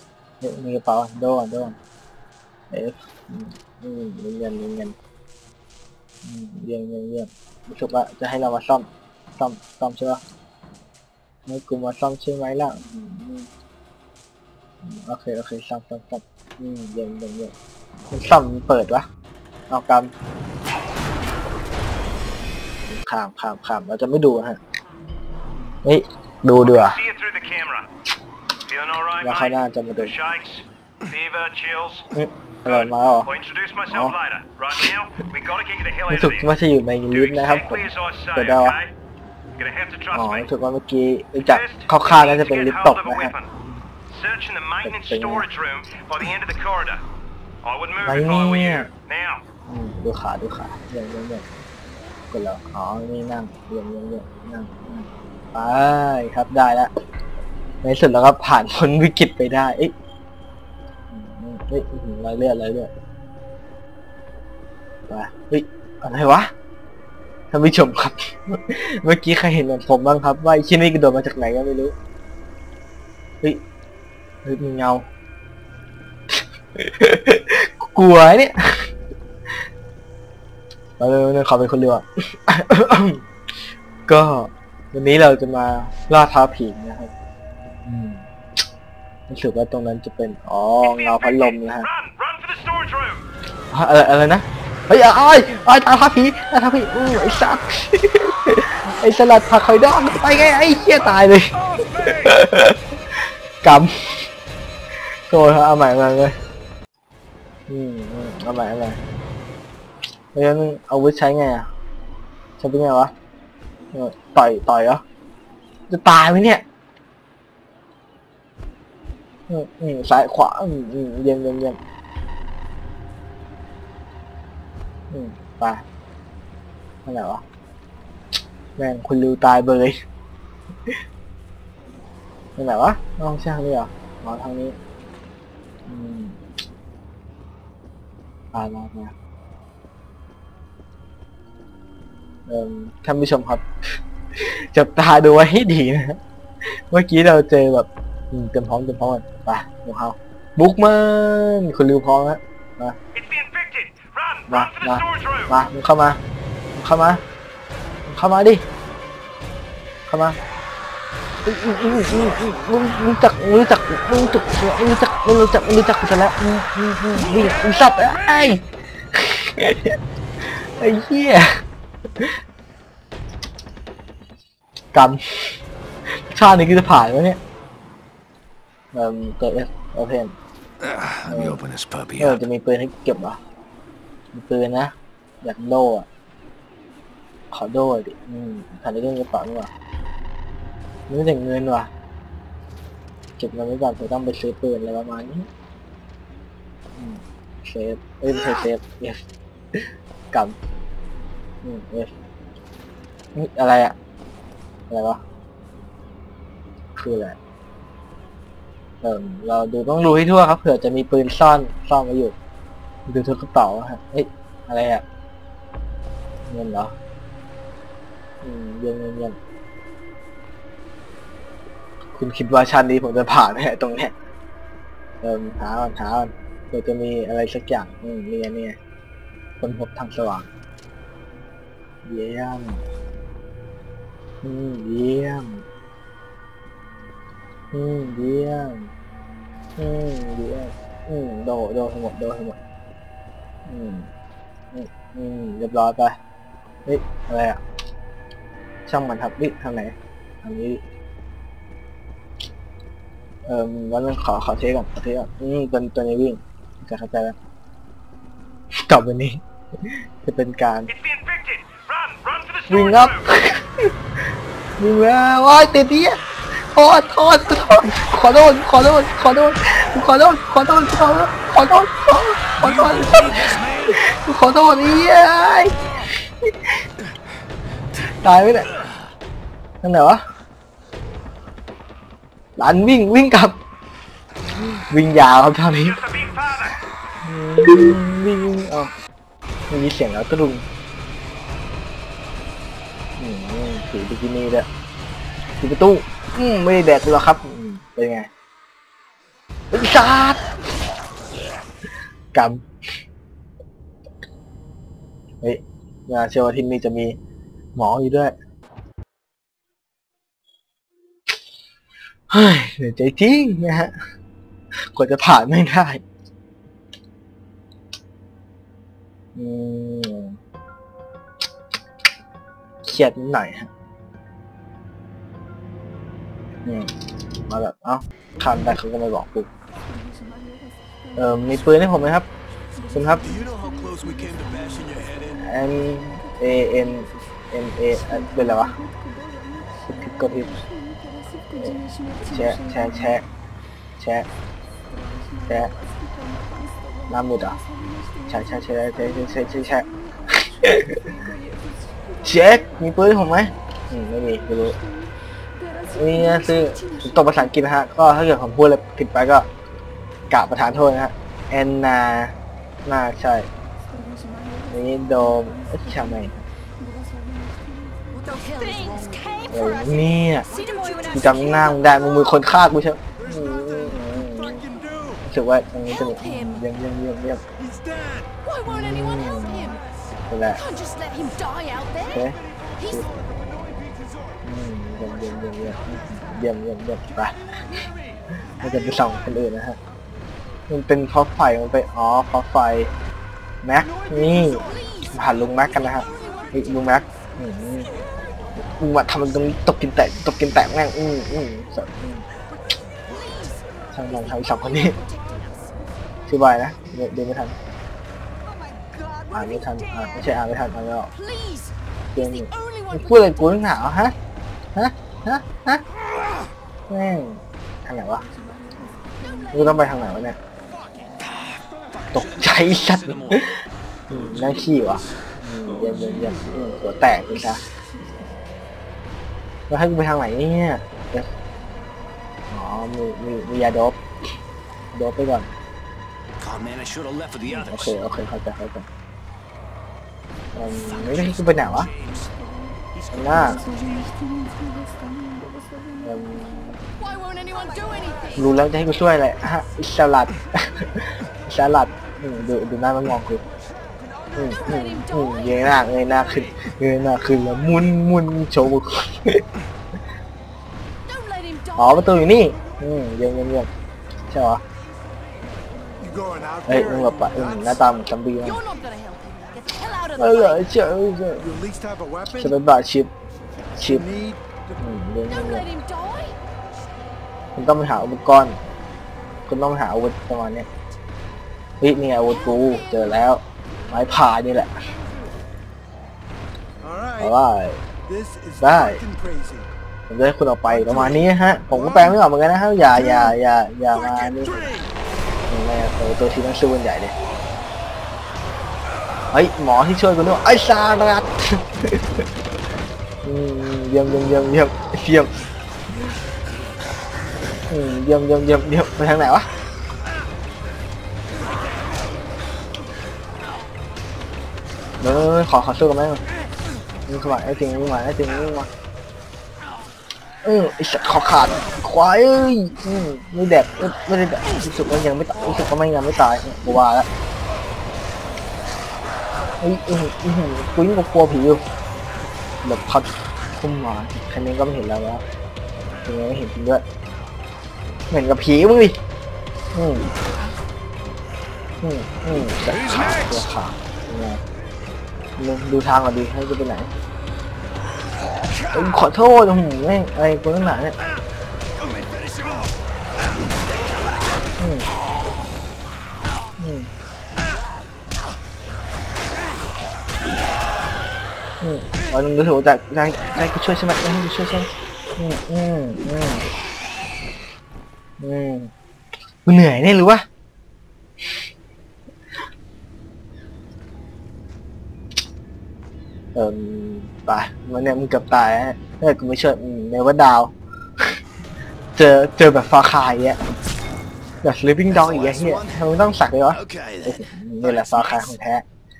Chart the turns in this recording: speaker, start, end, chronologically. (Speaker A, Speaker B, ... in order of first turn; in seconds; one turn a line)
Speaker A: 0.4-1.8
Speaker A: 2.7-4.9
Speaker A: 6.2-10.2
Speaker A: 11.5-13.5
Speaker A: 14.8-17.5
Speaker A: 18.1-19.1
Speaker A: 19.7-20.1
Speaker A: 22.9-24.6
Speaker A: 25.8-27.0
Speaker B: 26.6-27.9
Speaker B: 28.7-32.1
Speaker A: 29.2-30.1
Speaker A: 32.1-33.3
Speaker B: 32.6-36.5
Speaker A: 33.9-34.1
Speaker A: 36.1-38.8
Speaker B: 37.1-38.9
Speaker B: 39.6-40.5
Speaker A: 40.1-43.3
Speaker B: 41.4-43.5
Speaker B: 44.1-47.0
Speaker A: 44.8-45.5
Speaker B: 47.6-49.4
Speaker A: 48.0-48.9
Speaker A: 49.7-51.4
Speaker A: 52.3-56.9
Speaker A: 57.8-59.9
Speaker A: 61.1-62.9
Speaker A: 65.1-66.5
Speaker A: 67.5-71.9
Speaker A: 74.4-75.0
Speaker A: 76.8-78.9
Speaker A: 81.0-83.2
Speaker A: 84.1-87.1
Speaker A: 87.8-88.2
Speaker A: 89.3-91.8
Speaker B: 90.8-93.2
Speaker A: 93.7-104.3
Speaker A: 105.3-106.4
Speaker A: 107.7-109.0
Speaker A: 110.3-111.7
Speaker A: 112.6-113.1
Speaker A: 113.9-115.0
Speaker A: 115.9-116.6
Speaker A: 119.5-121.8
Speaker A: 125.1-125.8
Speaker A: 127.0-127.4
Speaker A: 128.8-130.0
Speaker A: 132.6-134.8
Speaker A: 135.9-136.4
Speaker A: 138.5-139.1
Speaker A: 142.5-143.6
Speaker A: 144.3-153.0
Speaker B: 153.1-155.5
Speaker A: 154.5-156.2
Speaker A: 156.8-157.2
Speaker A: 158.1-158.6
Speaker A: 160.1-160.4
Speaker A: 161.4-170.0
Speaker A: 170.8-171.6
Speaker A: 174.9-175.5
Speaker A: 176.3-177.4
Speaker A: 178.9-180.3
Speaker C: 180.8-182.4
Speaker A: 181.3-181.6
Speaker A: 182.2-183.4
Speaker A: 184.3-186.1
Speaker A: 187.5-189.7
Speaker A: 191.1-191.9
Speaker A: 193.4-195.5
Speaker A: 197.0-200.6
Speaker A: 201.6-202.1
Speaker A: 203.3-203.9
Speaker A: 204.9-205.2
Speaker A: 206.9-207.4
Speaker A: 209.0-212.3
Speaker A: 213.1-215.0
Speaker A: 216.5-216.9
Speaker A: 218.4-219.4
Speaker A: 222.1-224.1
Speaker A: 225.2-228.8
Speaker A: 229.6-230.5
Speaker A: 232.0-232.8
Speaker A: 234.4-235.6
Speaker A: 237.7-238.9
Speaker A: 239.8-242.6
Speaker A: 243.7-244.1
Speaker A: 244.7-246.2
Speaker A: 246.8-247.6
Speaker A: 248.9-250.8
Speaker A: 253.4-257.4
Speaker A: 258.8-260.9
Speaker B: 260.9-263.2
Speaker A: 262.7-263.9
Speaker A: 264.8-266.2
Speaker A: 266.7-275.8
Speaker C: 272.6-274.0
Speaker A: 278.2-278.7
Speaker A: 279.8-280.2
Speaker A: 282.6-283.6
Speaker A: 284.9-286.0
Speaker B: 285.8-286.8
Speaker A: 287.2-288.9
Speaker A: 289.7-290.6
Speaker A: 293.2-294.7
Speaker A: 295.6-298.3
Speaker A: 299.7-300.4
Speaker A: 302.3-302.6
Speaker A: 305.4-307.2
Speaker A: 307.7-308.4
Speaker A: 312.3-313.9
Speaker A: 314.9-316.0
Speaker A: 319.3-320.4
Speaker A: 322.8-323.7
Speaker A: 326.6-326.9
Speaker A: 327.5-329.5
Speaker A: 331.1-332.2
Speaker A: 332.9-333.2
Speaker C: 333.2-335.4
Speaker A: 335.4-338.8
Speaker A: 339.9-340.6
Speaker A: 341.5-343.2
Speaker A: 344.0-344.3
Speaker A: 345.5-345.7
Speaker A: 347.1-347.6
Speaker A: 348.2-351.1
Speaker A: 352.2-354.8
Speaker A: 355.9-359.5
Speaker A: 360.3-363.5
Speaker A: 364.7-366.4
Speaker D: 368.1-369.5
Speaker A: 369.5-370.5
Speaker D: 370.5-371.5
Speaker A: 371.1-374.6
Speaker A: 375.2-377.4
Speaker D: 378.4-379.7
Speaker A: 378.6-380.6
Speaker D: 380.6-382.2
Speaker A: 382.1-383.1
Speaker D: 382.8-383.0
Speaker A: 384.4-387.4
Speaker A: 388.6-389.8
Speaker A: 390.7-392.9
Speaker A: 393.6-397.9
Speaker D: 394.7-395.0
Speaker A: 398.6-402.2
Speaker A: 403.9-405.0
Speaker D: 404.9-405.6
Speaker A: 406.3-407.5
Speaker A: 409.3-411.1
Speaker D: 411.1-413.8
Speaker A: 412.1-414.1
Speaker A: 414.7-415.8
Speaker A: 416.9-418.2
Speaker A: 419.5-420.4
Speaker C: 420.7-423.5
Speaker A: 422.1-427.6
Speaker C: 424.1-425.0
Speaker A: 429.7-431.3
Speaker A: 432.5-434.0
Speaker A: 434.9-435.5
Speaker C: 436.4-438.0
Speaker A: 437.5-438.9
Speaker A: 440.5-441.9
Speaker C: 440.7-442.3
Speaker C: 442.9-444.1
Speaker A: 443.1-443.6
Speaker A: 446.0-446.9
Speaker D: 447.0-448.4
Speaker A: 448.3-453.4
Speaker A: 454.3-459.4
Speaker D: 454.6-455.7
Speaker D: 461.1-462.1
Speaker A: 461.7-463.7
Speaker A: 464.3-464.6
Speaker A: 466.6-468.6
Speaker D: 468.4-470.8
Speaker A: 470.2-471.5
Speaker A: 472.2-473.1
Speaker A: 473.8-474.3
Speaker A: 474.8-475.7
Speaker D: 475.3-476.4
Speaker A: 477.6-478.6
Speaker A: 479.5-480.6
Speaker A: 481.8-484.7
Speaker A: 487.1-487.8
Speaker A: 488.6-489.0
Speaker A: 490.1-494.7
Speaker A: 495.5-497.1
Speaker A: 499.3-502.2
Speaker A: 503.2-505.3
Speaker A: 507.7-509.5
Speaker A: 515.0-516.2
Speaker A: 517.1-518.7
Speaker A: 520.4-527.1
Speaker A: 529.6-531.6
Speaker A: 532.6-535.2
Speaker A: 536.0-536.8
Speaker A: 538.1-539.0
Speaker A: 539.7-540.1
Speaker A: 541.8-544.4
Speaker C: 542.9-543.4
Speaker A: 545.4-546.9
Speaker A: 548.7-551.0
Speaker C: 551.8-552.6
Speaker A: 554.6-554.9
Speaker A: 556.6-556.9
Speaker A: 561.6-566.5
Speaker A: 568.2-568.7
Speaker A: 569.4-570.2
Speaker A: 576.3-581.1
Speaker A: 582.0-583.4
Speaker A: 584.4-588.6
Speaker C: 584.9-585.9
Speaker C: 586.5-588.4